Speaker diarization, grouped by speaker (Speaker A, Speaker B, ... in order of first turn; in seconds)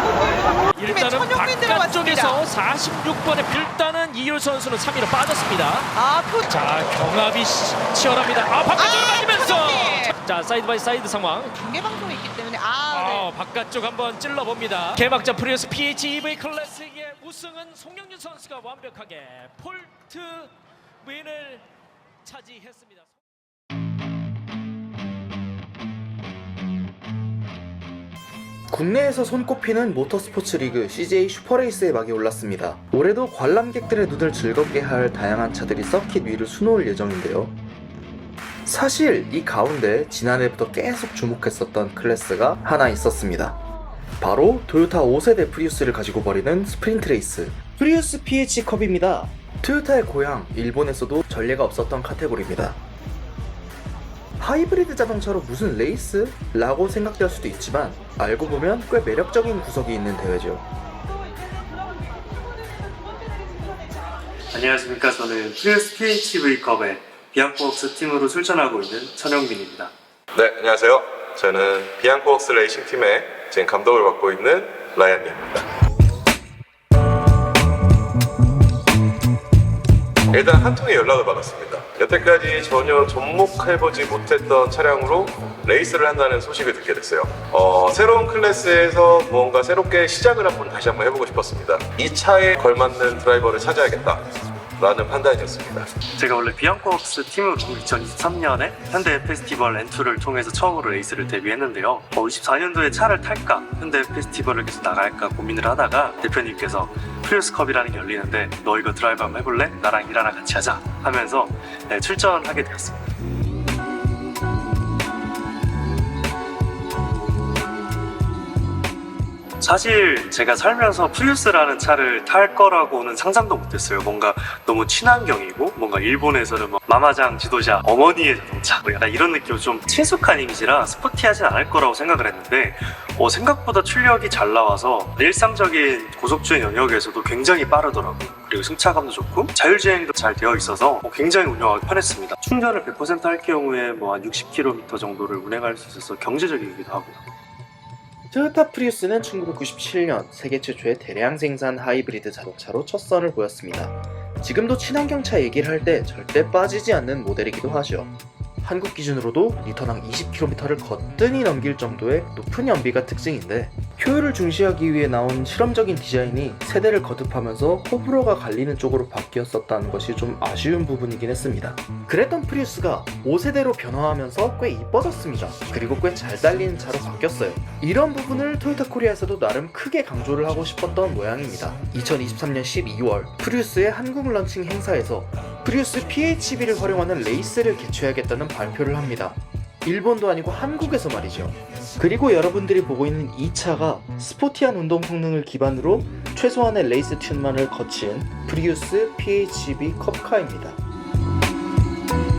Speaker A: 0.7-5.9, 6.5-11.5, 12.9-20.5, 21.0-21.6, 22.2-23.1
Speaker B: 0.8-2.4, 5.9-6.6, 8.8-10.1, 11.6-13.3
Speaker C: 28.7-37.6, 38.6-43.6, 44.2-52.8, 54.4-60.6, 148.3-200.8
Speaker D: 64.5-69.9, 96.1-113.1, 119.6-147.2
Speaker E: 70.3-75.6, 80.3-94.2, 94.8-95.9